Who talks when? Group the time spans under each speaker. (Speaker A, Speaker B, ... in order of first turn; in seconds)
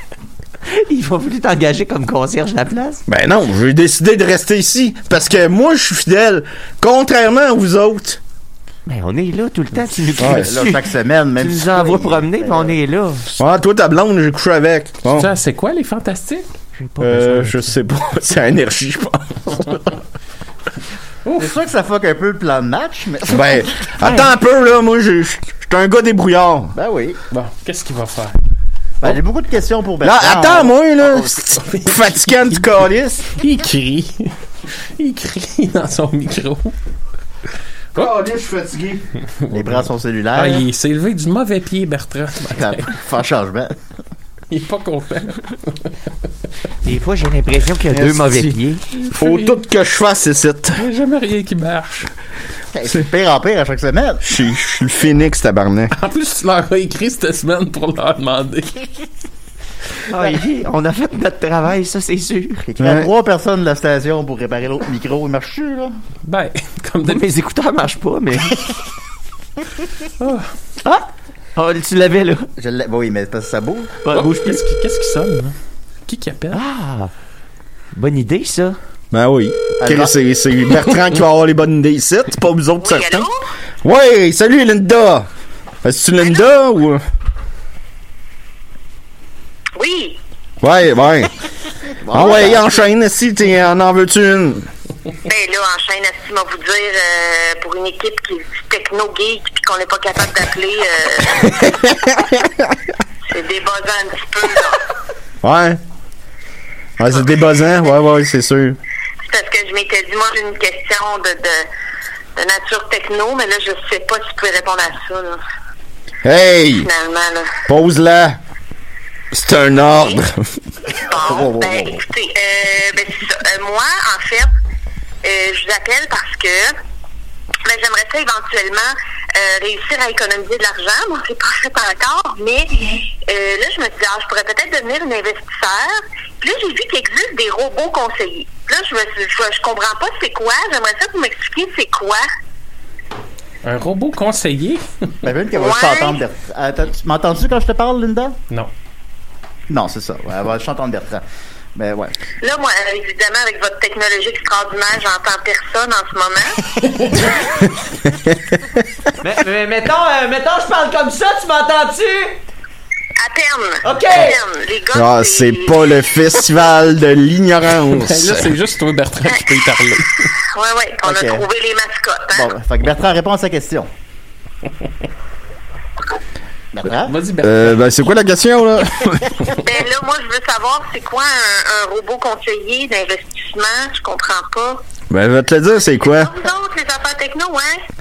Speaker A: 0.7-3.0, 8.9-10.9, 11.4-13.3, 16.8-17.7, 46.8-48.8, 60.1-62.6, 67.0-68.6, 70.8-72.5, 74.0-74.6, 76.5-77.1, 77.9-78.8, 159.2-162.4, 163.8-164.4
Speaker B: 3.1-8.2, 10.2-10.5, 13.4-15.3, 17.0-19.9, 23.3-26.7, 30.0-33.4, 37.9-39.0, 47.9-48.6, 49.1-50.8, 54.2-55.9, 62.8-63.1, 79.1-83.3, 83.8-85.3, 85.8-87.0, 90.6-91.3, 92.1-94.7, 101.4-102.7, 105.4-105.8, 107.0-108.8, 116.2-116.9, 117.7-118.4, 119.3-122.0, 158.2-158.6, 164.9-168.5, 177.4-179.5, 185.1-186.3
Speaker C: 10.2-12.8, 21.4-23.7, 26.7-27.2, 29.0-31.3, 39.5-40.6, 42.5-43.8, 52.7-54.2, 62.6-65.9, 72.6-73.9, 79.8-80.1, 92.0-92.8, 145.2-148.3, 149.7-151.2, 151.8-152.1, 171.0-171.5, 172.3-173.9, 176.7-177.1
Speaker D: 15.1-16.4, 21.2-21.5, 27.3-28.4, 31.5-32.6, 33.3-34.3, 35.0-36.7, 39.4-42.9, 44.5-45.9, 49.0-49.6, 50.8-52.1, 55.9-58.9, 66.2-67.2, 70.2-70.5, 74.1-75.5, 76.1-76.6, 143.6-144.9, 168.0-170.3, 177.0-177.8
Speaker E: 82.8-83.5, 89.8-90.2, 95.2-101.5, 103.3-104.9, 109.2-111.7, 112.3-115.4, 116.8-117.5, 121.0-124.5, 125.2-126.8, 127.6-142.3, 145.5-146.2, 152.4-156.6, 163.2-165.8, 170.4-172.5, 179.6-184.8, 186.0-187.8